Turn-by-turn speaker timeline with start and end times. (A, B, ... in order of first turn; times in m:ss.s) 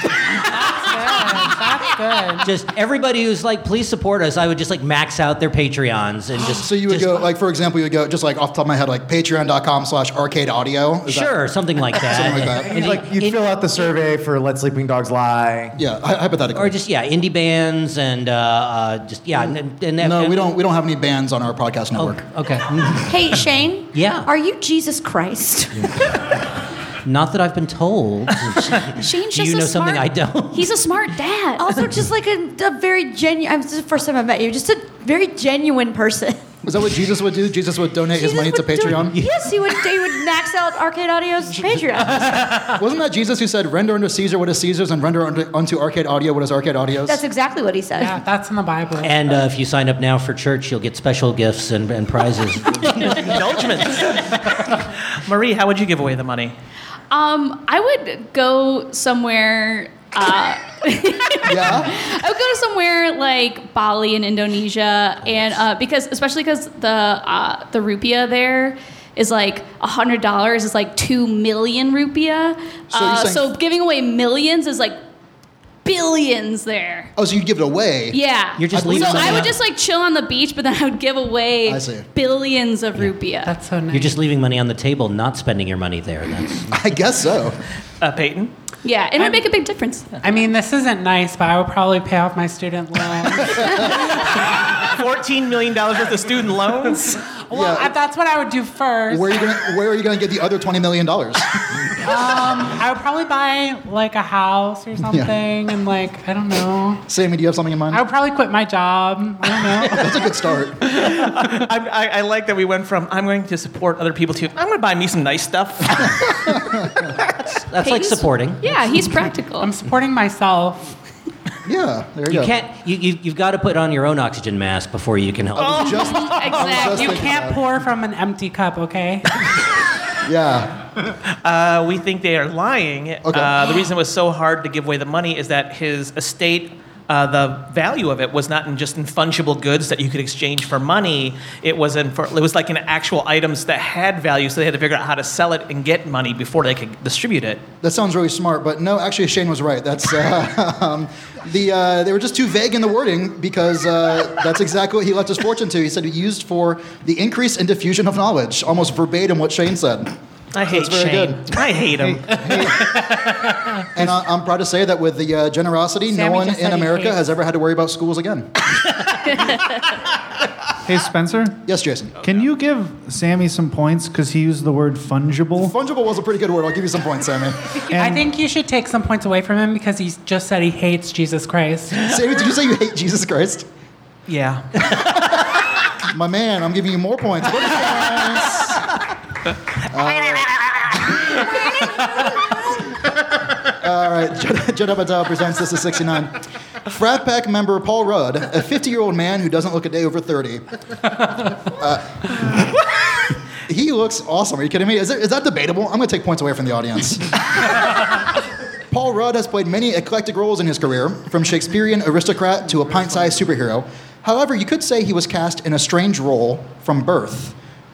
0:00.4-0:02.5 A
0:02.4-0:07.3 B
0:06.5-0:11.4 C
0:11.0-0:13.8 B
0:11.9-0:12.7 C
0:12.3-0:15.8 D
0:15.8-0:16.8 C
0:16.5-0:20.5 B
0:20.0-0:22.2 C
0:21.9-0:23.4 B
0:23.0-0:26.1 E
0:23.9-0:24.3 B
0:27.0-0:30.8 B
0:28.9-0:31.7 F
0:31.6-0:36.5 E
0:36.6-0:39.2 C
0:38.1-0:42.7 E
0:42.6-0:47.2 C
0:47.0-0:48.2 E
0:48.0-0:49.3 A
0:49.0-0:53.4 B
0:53.0-0:56.5 G
0:57.1-1:15.0 F
1:01.4-1:01.9 C
1:12.9-1:13.5 C
1:15.8-1:17.1 F
1:17.2-1:18.2 C
1:18.1-1:23.5 F
1:18.6-1:19.6 B
1:18.7-1:19.5 C
1:21.6-1:22.1 C
1:23.4-1:24.2 A
1:23.9-1:26.7 B
1:26.7-1:27.6 C
1:28.0-1:28.5 G
1:28.8-1:30.2 F
1:29.2-1:29.4 A
1:30.2-1:34.3 A
1:33.4-1:33.9 C
1:34.2-1:37.2 G
1:37.5-1:39.6 A
1:37.5-1:37.9 C
1:39.1-1:41.6 C
1:42.0-1:47.0 A
1:45.0-1:45.3 C
1:47.1-1:48.0 C
1:47.9-1:50.3 A
1:49.7-1:50.9 C
1:50.8-1:56.6 G
1:56.3-1:57.1 C
1:57.4-1:58.8 B
1:57.8-1:59.7 F
1:59.6-2:01.0 A
2:01.6-2:02.5 C
2:02.3-2:06.1 B
2:05.5-2:07.6 C
2:05.6-2:06.6 G
2:05.8-2:07.3 F
2:06.6-2:09.3 A
2:10.2-2:10.8 C
2:11.3-2:27.6 G
2:13.2-2:13.5 C
2:27.8-2:40.1 C
2:40.5-2:42.8 G
2:40.7-2:41.5 C
2:42.0-2:42.8 H
2:43.9-2:48.5 C
2:46.1-2:47.2 A
2:49.3-2:49.6 F
2:50.8-2:51.6 H
2:51.6-2:52.2 C
2:52.2-2:55.7 H
2:55.6-2:57.8 C
2:57.9-3:02.0 A
2:57.9-2:58.2 H
3:02.0-3:03.6 C
3:04.3-3:04.7 G
3:06.1-3:08.8 C
3:09.9-3:10.5 C
3:13.6-3:20.6 C
3:21.6-3:22.8 C
3:23.7-3:28.0 C
3:28.9-3:37.5 C